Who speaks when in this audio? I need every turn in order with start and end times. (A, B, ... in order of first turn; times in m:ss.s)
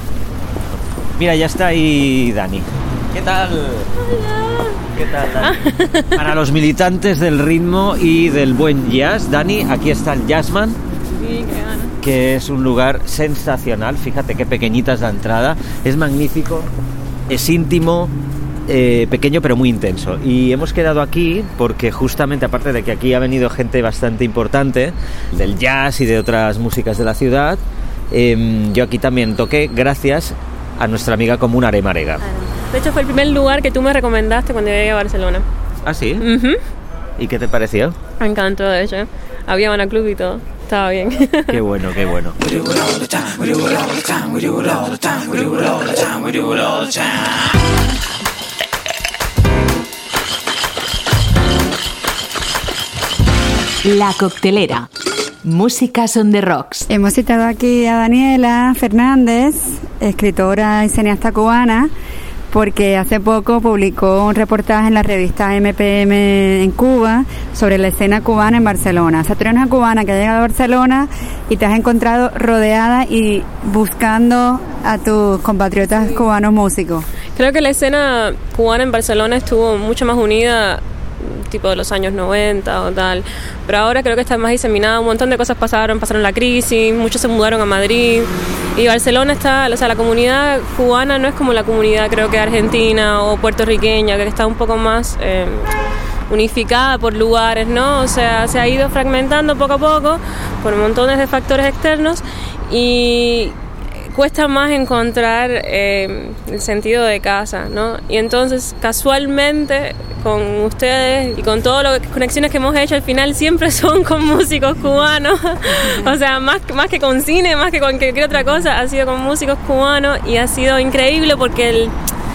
0:01.2-0:03.8 A
0:04.4-0:04.7 B
0:04.9-0:10.8 A
0:05.4-0:06.2 B
0:11.2-0:12.0 B
0:12.0-0:16.7 A
0:17.3-0:18.1 A
0:18.7-0:32.2 A
0:32.2-0:35.4 B
0:35.8-0:36.2 A
0:36.2-0:36.6 B
0:37.2-0:38.0 A
0:38.2-0:41.6 B
0:41.5-0:47.2 A
0:53.8-0:54.9 C
0:55.4-0:56.8 C
0:56.9-1:01.9 D
1:02.5-1:17.0 D
1:17.4-1:35.7 B
1:36.3-2:01.9 B